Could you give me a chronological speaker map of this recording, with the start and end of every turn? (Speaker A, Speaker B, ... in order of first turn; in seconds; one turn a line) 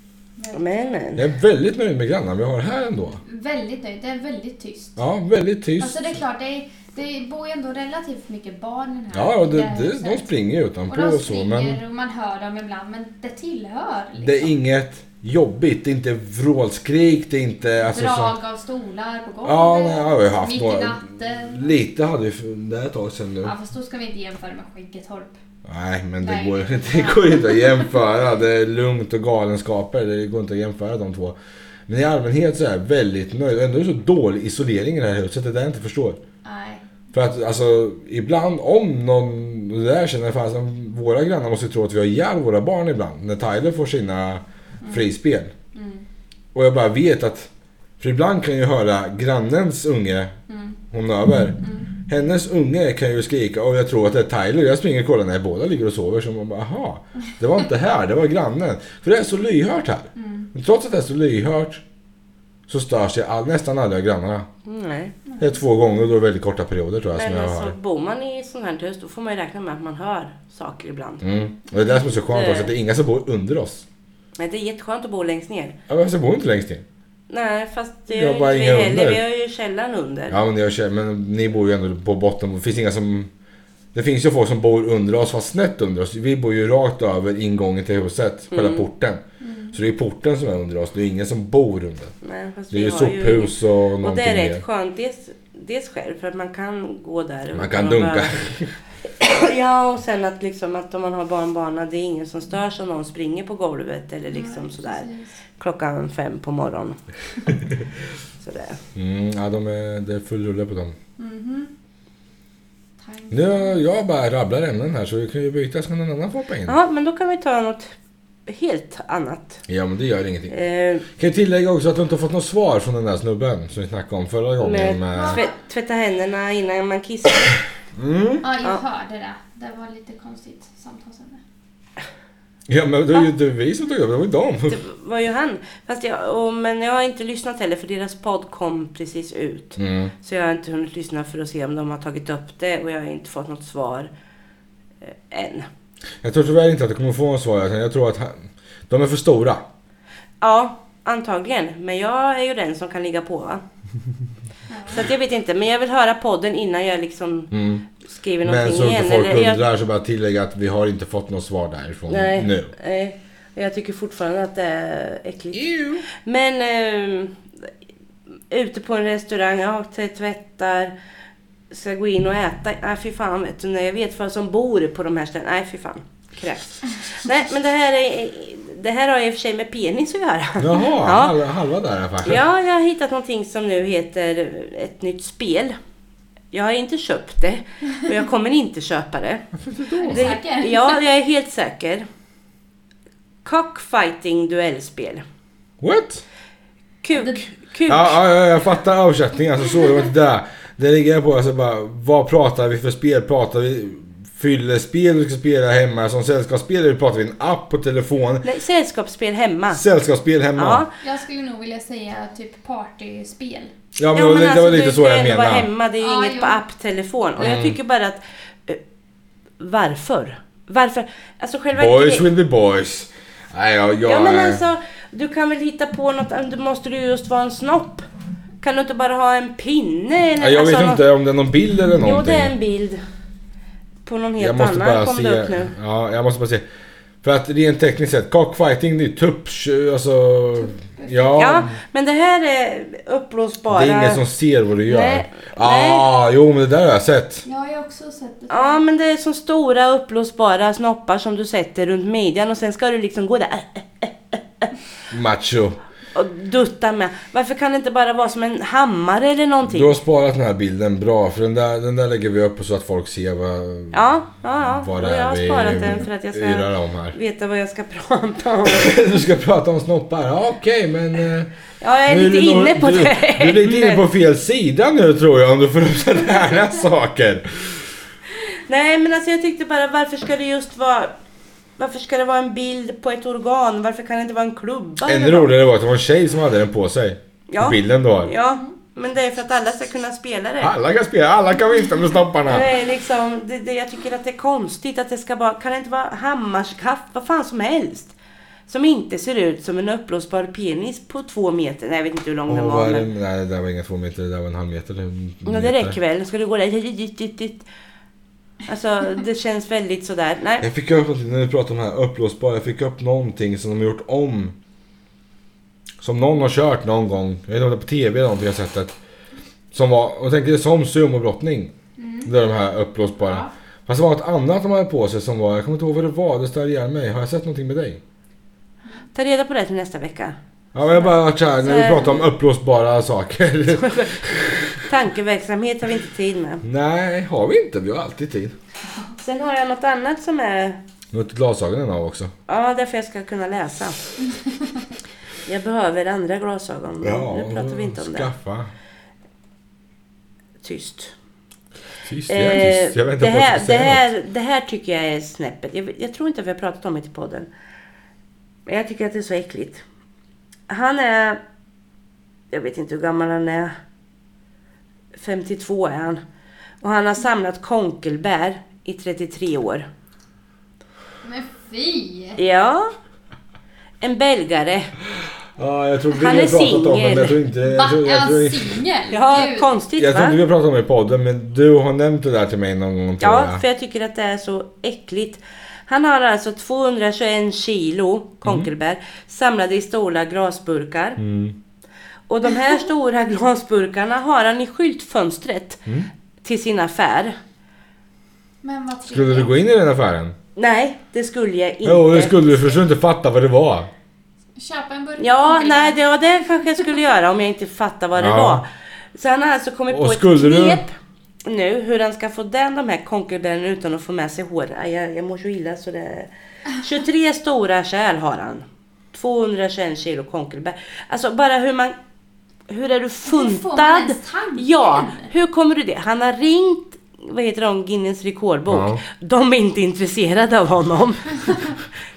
Speaker A: 0.4-0.9
Speaker B: 0.5-1.2
Speaker C: 1.2-3.2
Speaker A: 3.2-5.0
Speaker C: 5.0-6.2
Speaker A: 5.8-10.3
Speaker C: 9.1-11.8
Speaker A: 10.9-14.6
Speaker C: 14.2-18.3
Speaker A: 17.9-21.7
Speaker C: 19.4-23.5
Speaker A: 23.4-25.4
Speaker C: 25.6-31.4
Speaker A: 26.2-27.9
Speaker C: 31.9-36.2
Speaker A: 36.4-36.8
Speaker C: 37.1-45.5
Speaker A: 44.8-45.1
Speaker A: 45.7-46.0
Speaker C: 46.5-50.3
Speaker A: 50.5-50.8
Speaker C: 50.9-61.8
Speaker A: 51.6-51.9
Speaker A: 60.2-60.5
Speaker C: 62.7-64.5
Speaker B: 64.7-65.2
Speaker A: 65.3-65.5
Speaker C: 65.4-67.8
Speaker B: 67.2-71.2
Speaker C: 71.2-73.8
Speaker B: 72.3-72.7
Speaker B: 74.4-75.8
Speaker C: 75.9-76.8
Speaker B: 77.3-80.4
Speaker C: 78.1-79.2
Speaker C: 80.3-83.3
Speaker C: 83.9-89.2
Speaker B: 88.5-88.9
Speaker A: 89.4-89.8
Speaker C: 89.7-92.1
Speaker B: 92.2-98.5
Speaker C: 92.7-94.6
Speaker C: 97.5-98.7
Speaker B: 99.2-105.0
Speaker A: 104.3-105.3
Speaker B: 105.6-107.0
Speaker B: 108.4-108.8
Speaker C: 109.0-111.0
Speaker A: 111.2-111.7
Speaker A: 113.0-113.8
Speaker C: 113.3-116.8
Speaker B: 116.7-117.9
Speaker B: 118.5-119.6
Speaker C: 119.7-120.5
Speaker B: 120.5-121.0
Speaker C: 121.2-125.4
Speaker B: 124.6-127.6
Speaker A: 125.1-125.5
Speaker C: 128.0-128.5
Speaker A: 128.4-131.4
Speaker C: 132.7-134.8
Speaker B: 134.7-144.1
Speaker C: 139.8-140.1
Speaker B: 145.0-145.7
Speaker C: 146.2-149.7
Speaker B: 150.4-153.6
Speaker A: 154.7-155.0
Speaker B: 154.9-157.5
Speaker C: 157.5-157.8
Speaker B: 158.0-159.6
Speaker C: 158.4-162.7
Speaker B: 162.1-167.3
Speaker C: 165.5-166.1
Speaker B: 168.5-170.9
Speaker B: 171.7-181.4
Speaker C: 180.6-182.4
Speaker B: 182.2-185.8
Speaker B: 186.5-189.4
Speaker C: 189.7-190.3
Speaker A: 190.0-191.0
Speaker B: 190.0-192.1
Speaker B: 193.4-195.2
Speaker C: 195.8-196.2
Speaker B: 197.0-198.2
Speaker A: 197.1-197.4
Speaker C: 197.9-208.5
Speaker B: 208.4-209.8
Speaker C: 209.7-210.8
Speaker B: 210.6-210.9
Speaker A: 211.0-213.7
Speaker C: 214.0-215.7
Speaker B: 214.1-218.8
Speaker A: 216.0-216.6
Speaker C: 217.4-217.8
Speaker B: 219.6-222.3
Speaker C: 221.8-224.6
Speaker B: 224.1-228.1
Speaker B: 228.6-231.0
Speaker C: 230.4-232.5
Speaker B: 231.9-233.0
Speaker B: 234.1-235.7
Speaker C: 234.4-236.7
Speaker C: 237.2-241.7
Speaker A: 240.6-241.6
Speaker B: 241.4-244.2
Speaker C: 243.7-247.4
Speaker B: 244.8-246.1
Speaker A: 247.4-248.8
Speaker B: 248.5-254.7
Speaker C: 255.1-255.8
Speaker B: 256.1-260.0
Speaker C: 259.7-264.1
Speaker B: 263.9-269.0
Speaker C: 264.6-267.2
Speaker C: 268.6-271.5
Speaker B: 271.8-274.0
Speaker C: 272.1-277.8
Speaker B: 278.7-281.1
Speaker B: 281.8-285.5
Speaker C: 285.1-288.3
Speaker B: 287.5-290.7
Speaker C: 290.6-292.7
Speaker B: 292.5-298.1
Speaker B: 298.7-303.1
Speaker C: 302.5-306.0
Speaker B: 305.5-307.6
Speaker B: 308.7-310.7
Speaker C: 310.6-314.6
Speaker C: 316.0-319.0
Speaker C: 319.7-321.7
Speaker A: 322.0-322.3
Speaker C: 322.2-328.0
Speaker A: 323.2-323.5
Speaker B: 329.1-330.4
Speaker C: 330.7-334.8
Speaker B: 331.6-332.2
Speaker B: 333.7-336.6
Speaker C: 336.6-338.6
Speaker B: 339.2-340.8
Speaker C: 341.1-342.3
Speaker B: 342.5-344.0
Speaker B: 345.5-348.3
Speaker C: 347.0-348.7
Speaker B: 350.6-351.1
Speaker C: 352.1-354.1
Speaker B: 352.3-357.5
Speaker B: 358.7-359.8
Speaker B: 360.7-361.4
Speaker B: 362.5-363.7
Speaker B: 365.1-366.2
Speaker B: 366.8-369.9
Speaker A: 371.2-372.4
Speaker B: 372.4-372.9
Speaker B: 374.0-374.9
Speaker C: 375.6-378.8
Speaker B: 376.1-377.4
Speaker A: 377.6-379.7
Speaker B: 379.1-380.4
Speaker C: 380.0-383.6
Speaker B: 383.2-391.2
Speaker C: 391.2-391.6
Speaker B: 392.3-395.8
Speaker B: 396.4-397.4
Speaker A: 398.6-399.5
Speaker C: 399.1-400.4
Speaker B: 400.6-402.8
Speaker C: 401.8-403.9
Speaker A: 404.6-406.0
Speaker B: 405.2-410.9
Speaker C: 408.2-408.6
Speaker C: 409.9-410.8
Speaker B: 411.4-421.9
Speaker B: 422.7-431.9
Speaker A: 423.3-425.3
Speaker C: 428.7-429.0